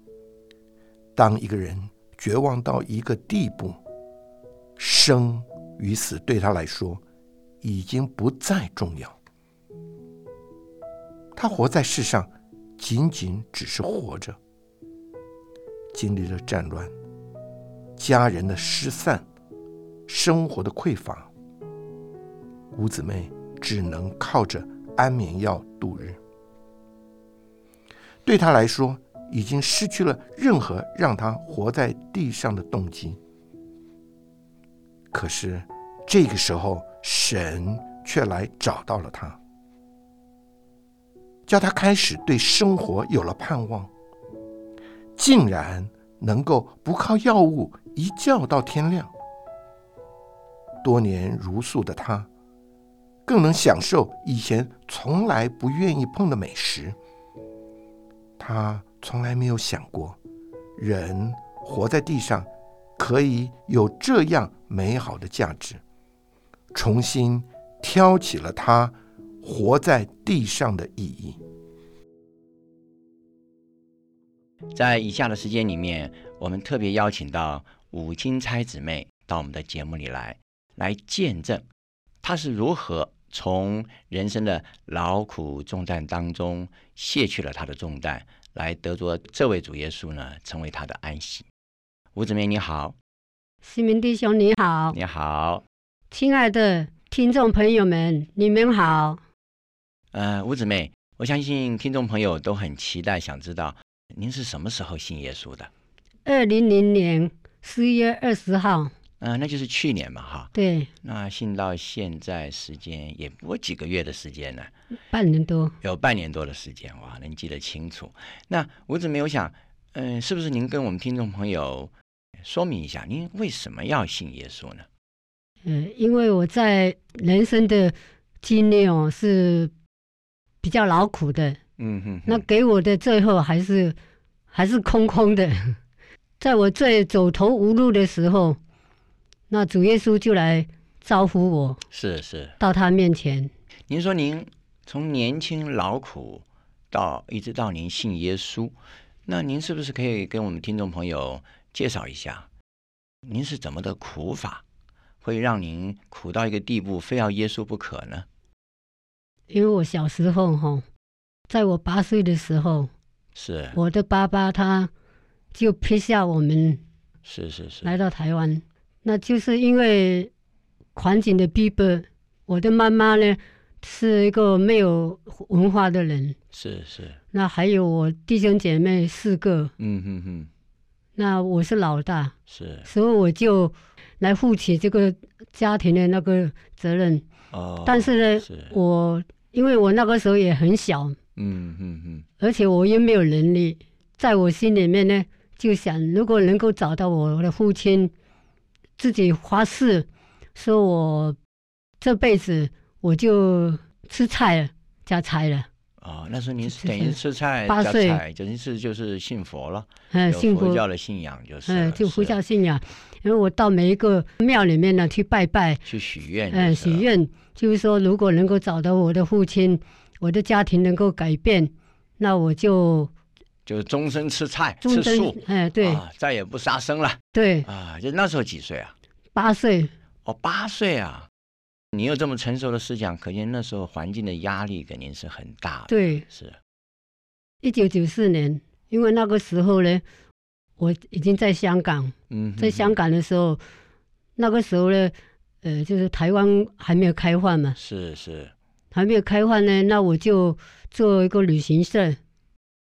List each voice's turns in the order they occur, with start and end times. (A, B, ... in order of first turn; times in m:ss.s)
0:01.2-0:03.8 A
0:04.8-0:07.0 A
0:07.6-0:09.1 A
0:11.4-0:14.4 A
0:15.9-0:16.9 A
0:18.0-0:19.2 A
0:20.1-0:21.3 A
0:22.7-0:26.2 A
0:28.2-0:33.2 A
0:35.1-0:39.4 A
0:41.5-0:43.9 A
0:45.2-0:49.1 A
0:50.8-0:52.3 A
0:53.2-0:57.0 A
0:58.4-1:00.2 A
1:00.8-1:05.8 A
1:06.7-1:11.4 A
1:14.7-1:21.6 B
1:22.2-1:31.4 B
1:32.1-1:32.9 B
1:33.6-1:35.0 C
1:34.9-1:35.6 B
1:36.1-1:39.2 C
1:40.1-1:45.7 B
1:46.2-1:48.9 C
1:49.2-1:50.5 B
1:50.5-1:50.9 C
1:51.0-1:54.7 B
1:55.1-1:55.7 C
1:55.8-2:01.9 B
2:02.4-2:04.8 B
2:05.6-2:09.7 C
2:10.6-2:11.6 C
2:11.8-2:12.4 B
2:12.3-2:14.0 C
2:14.5-2:15.8 C
2:16.4-2:18.6 C
2:19.5-2:21.8 C
2:21.9-2:22.6 B
2:22.6-2:23.5 C
2:23.9-2:28.7 B
2:29.3-2:32.4 B
2:33.3-2:34.6 B
2:35.2-2:38.2 B
2:39.5-2:40.8 C
2:41.5-2:42.9 C
2:43.3-2:43.8 B
2:43.7-2:44.9 C
2:45.5-2:46.8 C
2:47.2-2:47.9 B
2:47.8-2:50.3 C
2:50.9-2:56.4 C
2:56.5-2:57.2 B
2:57.3-2:59.7 C
2:59.8-3:00.5 B
3:01.2-3:02.3 C
3:02.5-3:02.9 B
3:02.8-3:07.2 C
3:07.5-3:08.7 B
3:07.8-3:11.2 C
3:11.4-3:12.2 B
3:12.4-3:18.1 C
3:19.0-3:21.4 C
3:22.0-3:25.7 C
3:26.0-3:32.4 B
3:26.6-3:28.2 C
3:30.1-3:30.8 C
3:31.6-3:35.8 C
3:35.8-3:37.0 B
3:36.5-3:43.1 C
3:43.6-3:48.9 B
3:44.8-3:46.0 C
3:47.3-3:47.7 C
3:49.3-3:49.9 C
3:50.2-3:51.3 B
3:51.9-3:56.6 B
3:55.9-3:56.2 C
3:57.6-4:00.0 C
4:00.8-4:03.6 C
4:02.3-4:03.0 B
4:04.4-4:07.8 C
4:07.8-4:08.5 B
4:08.9-4:12.2 C